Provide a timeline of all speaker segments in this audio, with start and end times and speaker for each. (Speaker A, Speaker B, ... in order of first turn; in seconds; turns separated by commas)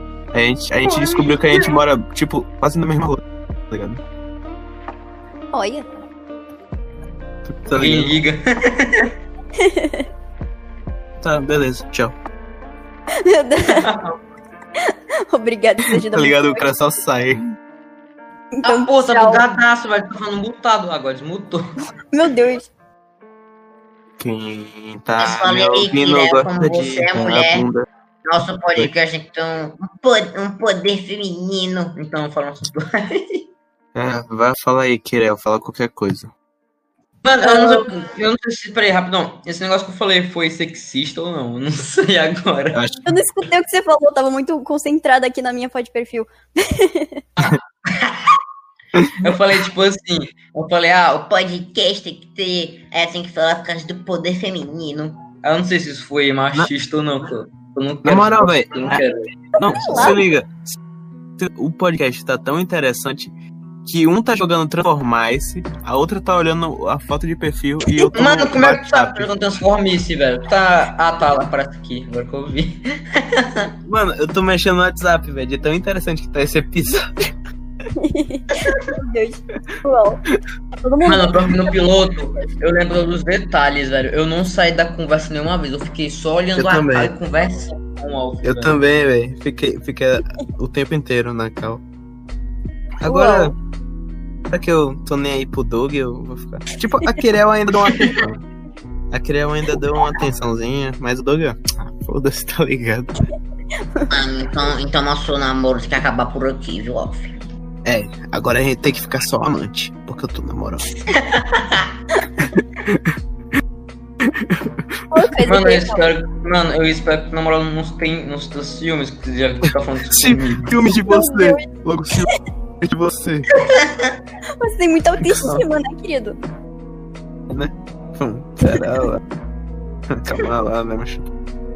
Speaker A: 0.3-4.0, Speaker B: 0.9-1.4, Speaker C: 5.5-5.9, Speaker A: 7.5-8.2, Speaker B: 7.7-9.1, Speaker C: 9.6-10.1, Speaker A: 11.2-12.1, Speaker C: 13.1-13.9, Speaker B: 13.7-14.2, Speaker C: 14.8-16.7, Speaker A: 15.9-17.5, Speaker C: 18.5-19.4, Speaker B: 18.6-21.6, Speaker C: 22.1-22.7, Speaker A: 24.2-27.9, Speaker D: 25.2-27.6, Speaker D: 28.2-31.9, Speaker B: 31.9-33.5, Speaker A: 33.9-36.3, Speaker B: 37.2-42.8, Speaker C: 37.4-37.8, Speaker A: 42.7-43.0, Speaker C: 43.0-47.2, Speaker B: 47.4-48.3, Speaker A: 48.9-49.3, Speaker B: 49.1-51.0, Speaker D: 51.0-55.2, Speaker B: 55.4-59.3, Speaker A: 58.0-59.0, Speaker A: 59.5-60.8, Speaker C: 59.6-60.2, Speaker A: 61.4-63.3, Speaker A: 63.8-69.3, Speaker B: 68.1-73.7, Speaker A: 73.8-77.3, Speaker C: 78.0-80.2, Speaker C: 80.8-81.7, Speaker B: 81.0-88.8, Speaker A: 86.5-87.1, Speaker A: 88.4-91.8, Speaker A: 93.0-93.5, Speaker C: 93.0-93.5, Speaker A: 94.5-98.4, Speaker A: 99.1-103.3, Speaker D: 104.1-107.3, Speaker A: 107.8-110.9, Speaker D: 111.3-111.9, Speaker A: 112.4-113.1, Speaker A: 114.2-114.8, Speaker C: 115.1-116.0, Speaker B: 115.4-120.7, Speaker A: 120.1-123.5, Speaker C: 121.0-121.7, Speaker B: 123.6-123.9, Speaker C: 124.6-126.4, Speaker A: 125.2-125.6, Speaker A: 127.5-129.2, Speaker A: 130.1-131.3